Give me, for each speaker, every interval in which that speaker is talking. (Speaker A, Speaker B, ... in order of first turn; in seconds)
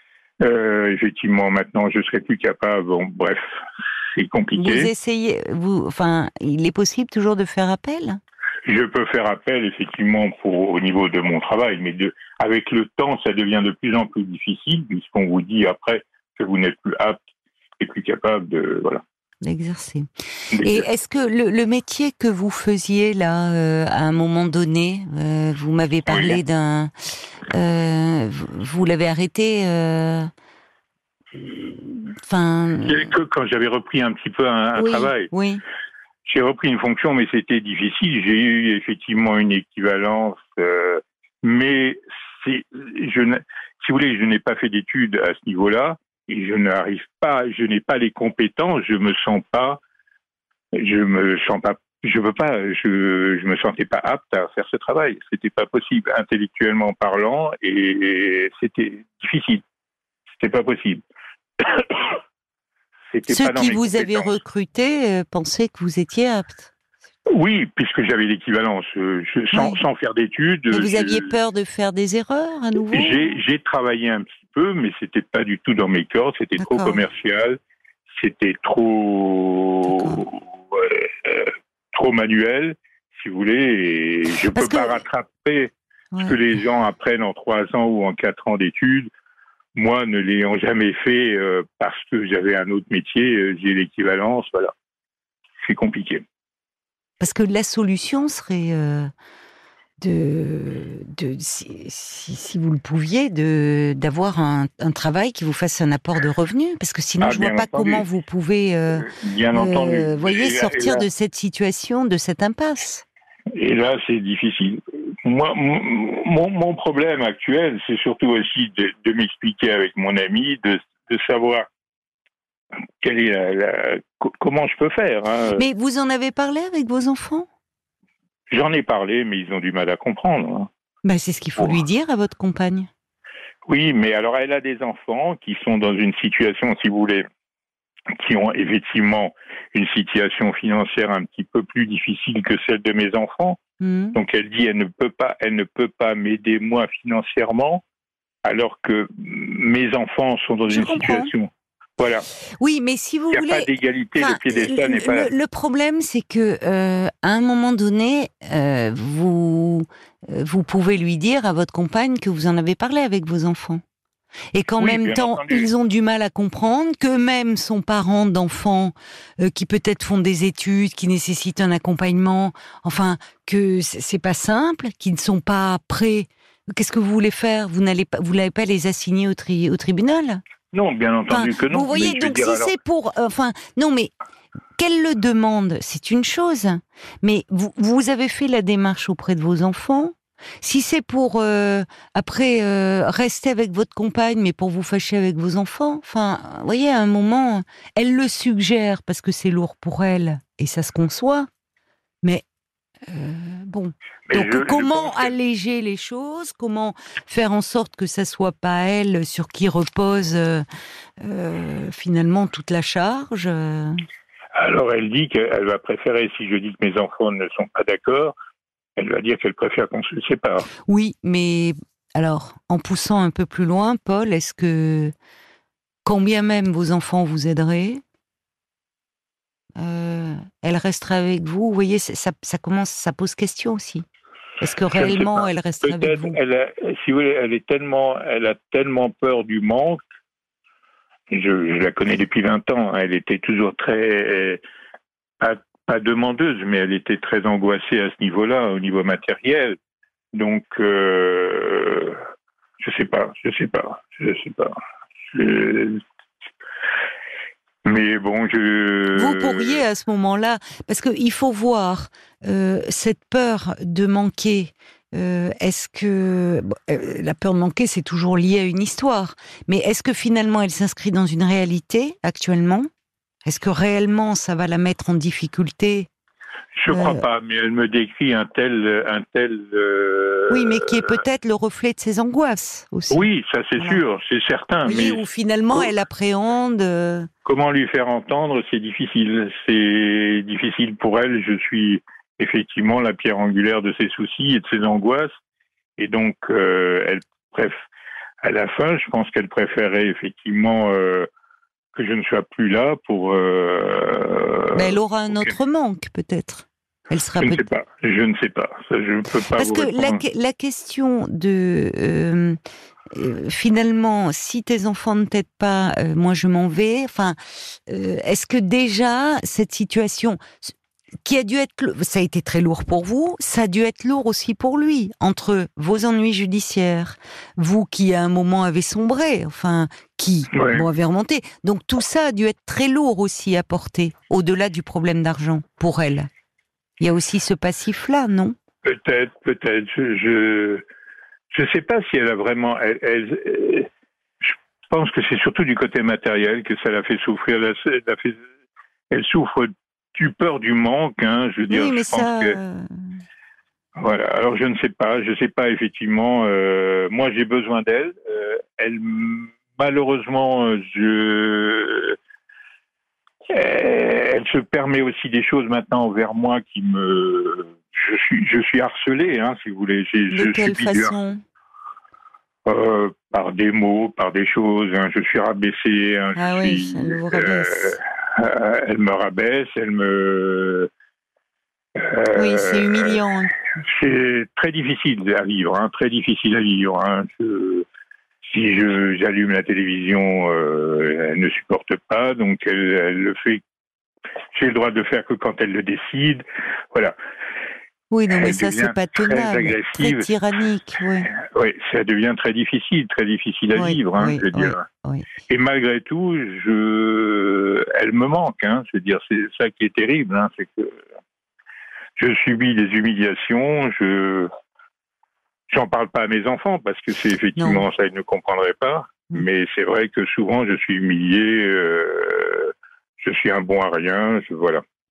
Speaker A: 0.4-4.9, 8.7-17.2, 17.8-19.0, 20.5-20.9, 26.1-26.4, 32.9-35.3, 36.2-49.8, 50.7-59.6, 60.4-61.0, 61.6-62.2, 63.1-64.4, 67.3-71.3, 72.9-77.6, 78.1-85.7, 86.2-89.1, 89.8-94.7, 95.6-96.2, 107.2-108.1, 108.9-111.1, 113.5-121.7, 123.0-125.6, 128.5-130.7, 131.6-131.8, 133.7-137.2, 138.2-143.6, 144.2-147.8, 148.4-152.2, 153.3-155.3, 164.8-165.7, 180.7-182.8, 204.3-205.3, 214.6-218.3, 219.0-220.7, 234.9-240.0, 241.3-244.6, 245.4-249.8, 250.3-252.2, 252.8-254.8, 255.3-256.0, 257.9-259.9, 276.8-281.2, 283.1-285.9, 287.4-295.3, 296.0-297.9, 298.4-301.3, 301.9-305.5, 307.4-310.2, 330.5-330.9, 338.9-340.8, 341.5-343.9, 344.4-348.4, 349.1-352.6, 354.0-362.2, 363.5-371.1, 372.7-380.9, 382.0-383.2, 383.7-387.9, 388.5-393.6, 394.5-397.2, 398.3-400.3, 401.3-404.8, 405.5-411.0, 412.2-414.5, 415.7-424.8
Speaker B: 4.6-8.2, 19.4-30.3, 31.4-33.1, 34.8-35.6, 63.3-66.7, 69.5-69.8, 70.7-73.3, 76.6-77.0, 79.9-80.2, 84.5-85.0, 97.2-99.1, 100.0-113.0, 125.5-127.5, 131.0-132.9, 143.8-144.2, 150.7-151.3, 152.6-163.8, 164.5-180.4, 181.3-184.1, 184.8-201.5, 203.1-210.7, 211.2-214.0, 220.8-225.1, 226.1-228.0, 229.8-234.1, 234.6-236.4, 259.1-272.9, 273.4-276.1, 276.9-277.2, 280.5-283.2, 284.8-287.3, 304.7-307.6, 309.6-312.6, 313.1-320.7, 321.2-336.3, 337.0-338.6, 351.7-353.0, 370.3-371.4, 376.4-378.0, 382.3-383.5, 398.1-401.3, 403.8-405.3, 417.6-417.9